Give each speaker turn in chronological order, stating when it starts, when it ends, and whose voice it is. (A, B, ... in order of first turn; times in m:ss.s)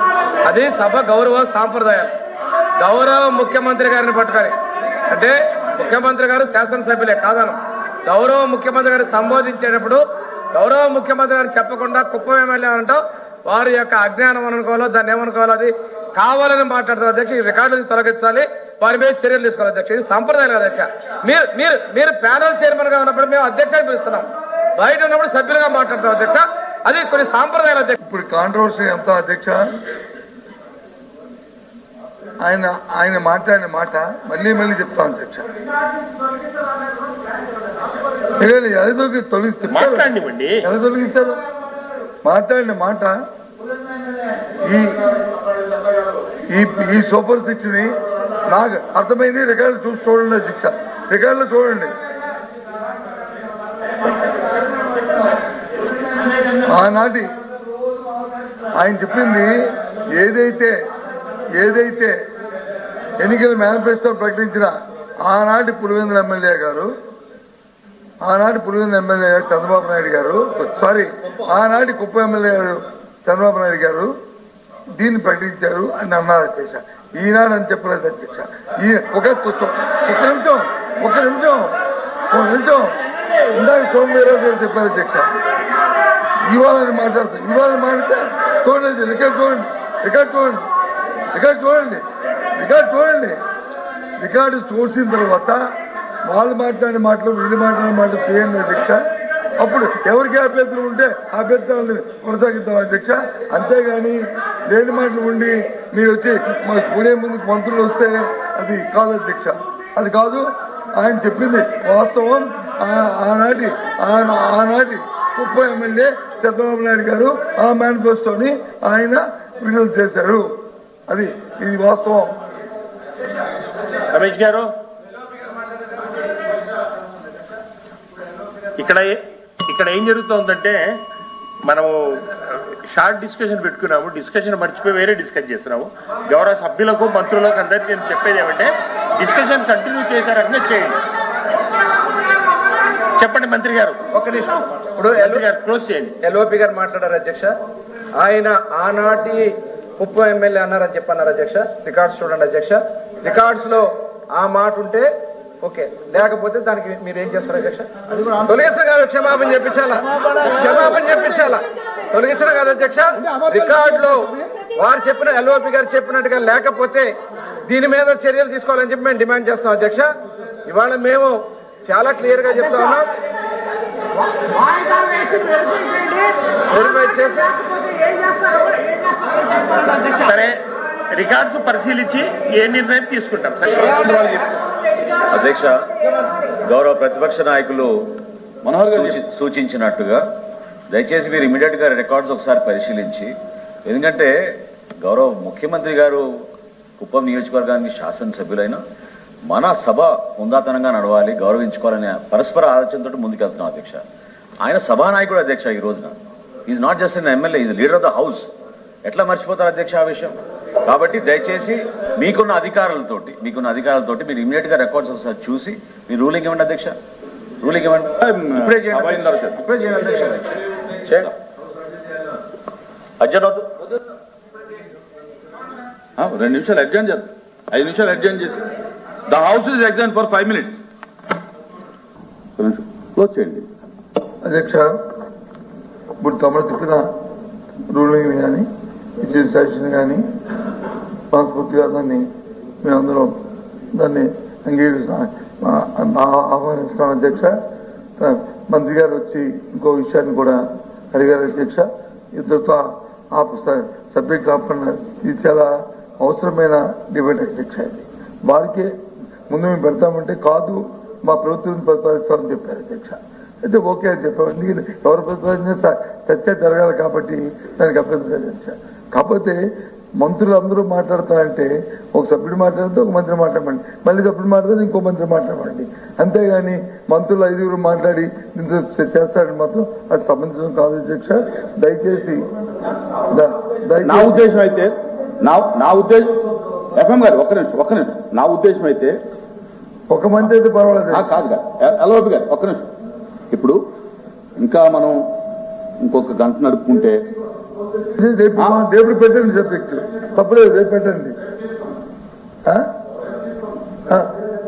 0:00.5-0:02.0 A
0:02.8-0:04.5 A
0:05.1-0:07.6 A
0:08.1-0:10.0 A
0:10.6-0:24.2 A
0:24.8-0:28.0 A
0:28.0-0:29.7 B
0:32.4-0:35.5 B
0:38.4-0:41.4 B
0:39.8-0:40.6 C
0:42.2-0:43.2 B
0:44.6-0:45.0 B
0:46.5-0:47.9 B
0:48.5-0:51.9 B
0:56.7-0:57.3 B
0:58.8-0:59.6 B
1:00.2-1:00.8 B
1:01.6-1:02.2 B
1:03.2-1:06.9 B
1:08.2-1:14.1 B
1:15.0-1:21.8 B
1:22.3-1:22.9 B
1:23.5-1:25.3 B
1:26.5-1:30.6 B
1:31.3-1:32.0 B
1:32.6-1:33.4 B
1:34.2-1:35.6 B
1:36.3-1:39.0 B
1:39.6-2:00.5 B
2:01.1-2:02.3 B
2:04.1-2:04.7 C
2:08.8-2:11.0 C
2:11.7-2:12.0 C
2:12.5-2:21.0 C
2:23.2-2:24.0 C
2:24.1-2:25.4 A
2:25.2-2:26.1 C
2:26.2-2:27.5 A
2:28.2-2:35.1 A
2:35.6-2:37.9 A
2:38.4-2:47.1 A
2:47.7-2:50.1 A
2:50.6-2:53.1 A
2:56.7-2:57.5 A
3:00.2-3:00.6 C
3:01.1-3:03.9 C
3:03.9-3:04.6 D
3:05.3-3:05.7 E
3:06.6-3:07.9 E
3:08.6-3:09.2 D
3:09.0-3:10.2 E
3:10.9-3:13.3 E
3:13.9-3:14.3 E
3:15.0-3:16.2 E
3:17.0-3:18.8 E
3:19.5-3:24.0 E
3:24.6-3:26.2 E
3:26.7-3:28.5 E
3:29.0-3:37.0 E
3:37.6-3:38.1 E
3:38.2-3:39.6 D
3:38.7-3:40.4 E
3:43.2-3:43.7 E
3:46.2-3:48.6 D
3:49.3-3:50.8 D
3:52.6-3:53.7 D
3:54.4-3:54.9 B
3:56.2-3:57.0 B
3:57.9-3:58.7 B
3:59.2-4:00.2 B
4:01.3-4:02.3 B
4:02.8-4:03.3 B
4:04.0-4:07.5 B
4:08.2-4:10.6 B
4:11.1-4:18.9 B
4:19.5-4:29.6 B
4:30.2-4:42.4 B
4:43.3-4:44.4 B
4:44.0-4:44.9 D
4:45.4-4:46.3 D
4:47.0-4:49.1 D
4:50.1-4:51.3 B
4:51.1-4:52.9 D
4:53.5-4:53.8 D
4:54.6-4:55.2 D
4:56.0-4:57.2 D
4:58.2-5:01.4 B